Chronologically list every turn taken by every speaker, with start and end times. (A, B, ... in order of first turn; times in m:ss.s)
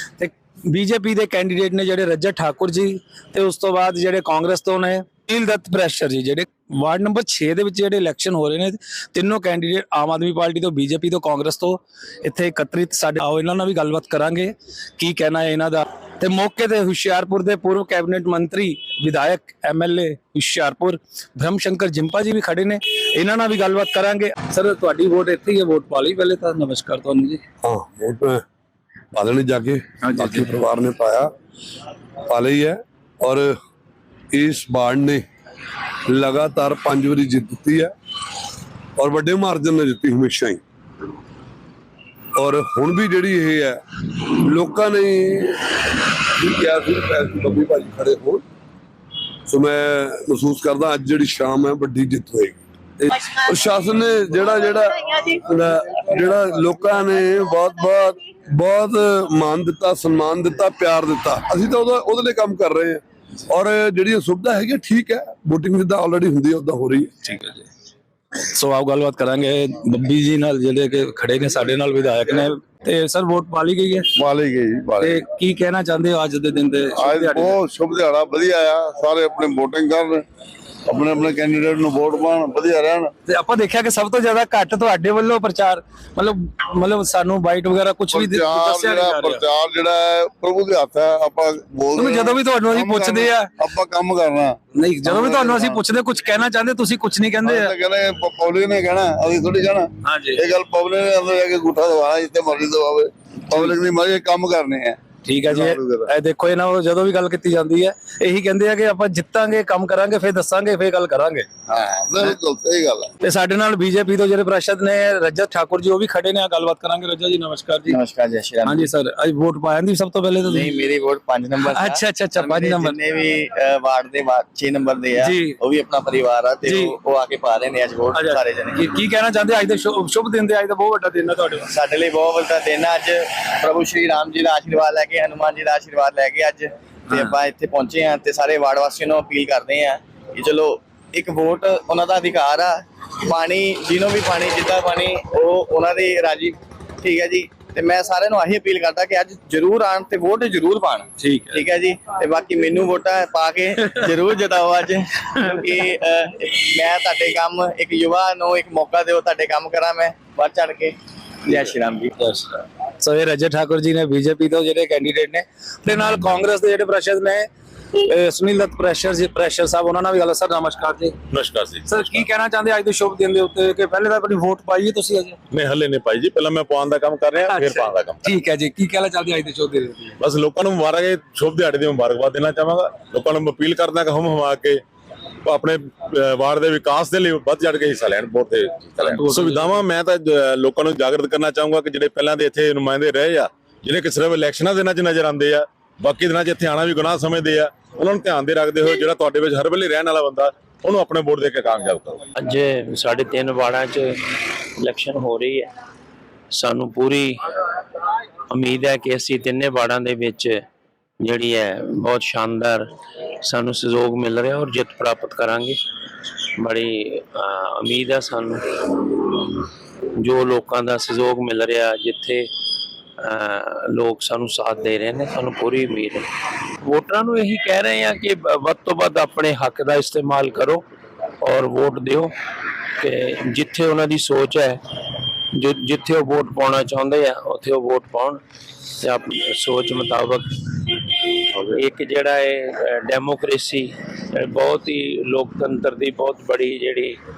0:00.2-0:27.4 A
0:27.6-0:28.4 B
0:29.1-0:31.3 B
0:30.0-0:30.5 A
0:32.3-0:33.6 B
0:34.3-0:35.2 B
0:36.1-0:37.9 B
0:39.0-0:40.6 B
0:42.4-0:48.4 B
0:49.5-1:07.1 B
1:07.2-1:07.7 A
1:08.5-1:14.1 A
1:14.2-1:15.2 C
1:15.0-1:17.6 A
1:17.0-1:20.2 C
1:20.9-1:23.1 C
1:23.3-1:29.4 A
1:28.1-1:35.8 C
1:32.0-1:33.5 A
1:34.8-1:37.7 A
1:37.4-1:46.1 C
1:40.0-1:40.4 A
1:45.2-1:51.5 A
1:51.7-1:53.1 C
1:53.2-1:58.0 A
1:57.9-1:58.9 D
1:58.6-2:00.7 A
2:00.5-2:08.8 D
2:01.7-2:03.0 A
2:05.2-2:05.6 A
2:06.6-2:07.0 A
2:08.1-2:11.7 A
2:11.7-2:42.1 D
2:31.2-2:31.6 A
2:43.0-2:51.2 A
2:51.3-2:52.2 E
2:51.9-2:55.4 A
2:55.5-2:58.3 E
2:57.4-3:00.2 A
3:00.2-3:04.8 E
3:05.4-3:22.2 E
3:09.0-3:09.8 A
3:22.4-3:25.7 F
3:26.5-3:27.7 F
3:28.5-3:30.6 F
3:31.2-3:32.9 F
3:33.4-3:35.8 F
3:36.6-3:42.5 F
3:43.2-3:46.3 F
3:46.8-3:50.8 F
3:51.4-3:52.3 F
3:53.0-3:54.8 F
3:55.5-3:58.4 F
3:59.0-4:07.2 F